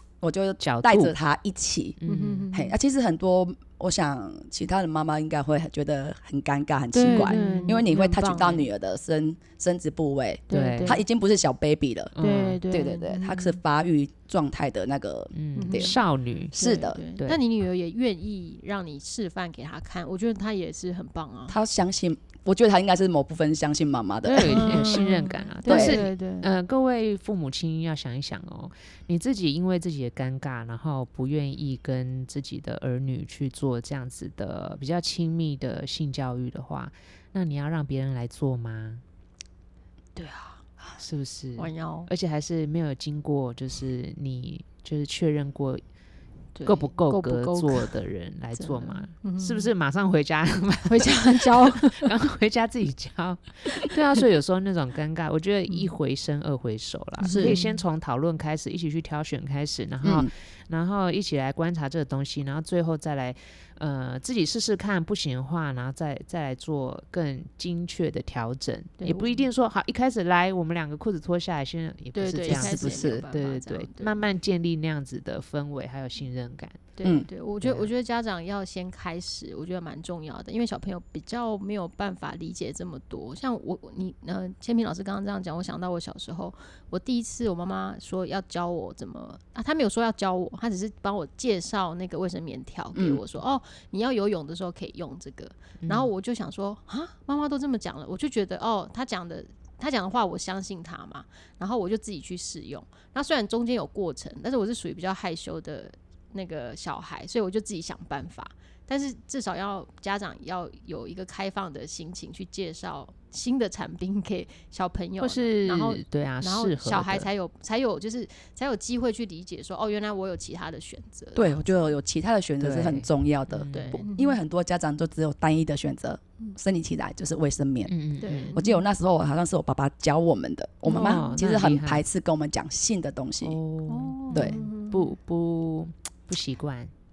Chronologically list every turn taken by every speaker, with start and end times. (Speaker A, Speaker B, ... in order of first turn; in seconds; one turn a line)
Speaker A: 0.2-2.0
Speaker B: 0.6-1.2
Speaker B: 2.0-2.5
Speaker C: 2.1-2.7
Speaker A: 2.5-12.1
Speaker C: 6.9-8.7
Speaker B: 7.1-7.8
Speaker C: 10.5-11.0
Speaker B: 10.5-11.0
Speaker B: 12.2-12.6
Speaker C: 12.2-13.6
Speaker A: 12.7-15.9
Speaker B: 15.3-16.5
Speaker C: 15.6-16.0
Speaker C: 16.5-21.6
Speaker A: 16.5-17.0
Speaker A: 21.5-24.9
Speaker B: 24.2-39.0
Speaker C: 24.5-26.5
Speaker A: 25.7-26.1
Speaker C: 40.2-40.6
Speaker B: 41.0-45.8
Speaker C: 41.6-42.1
Speaker C: 46.6-47.9
Speaker B: 46.6-76.9
Speaker C: 48.6-49.7
Speaker C: 50.9-52.1
Speaker C: 57.2-57.8
Speaker A: 57.3-57.6
Speaker A: 60.0-60.3
Speaker C: 69.0-69.5
Speaker C: 72.2-74.2
Speaker A: 72.5-73.2
Speaker C: 77.0-121.6
Speaker B: 77.6-77.9
Speaker A: 93.0-93.2
Speaker B: 95.8-96.1
Speaker B: 115.2-117.3
Speaker A: 121.3-127.9
Speaker B: 122.6-124.0
Speaker C: 123.7-124.4
Speaker B: 127.9-128.6
Speaker C: 128.2-128.8
Speaker A: 128.5-133.6
Speaker B: 130.9-132.1
Speaker C: 130.9-131.3
Speaker B: 133.4-136.9
Speaker C: 133.9-135.0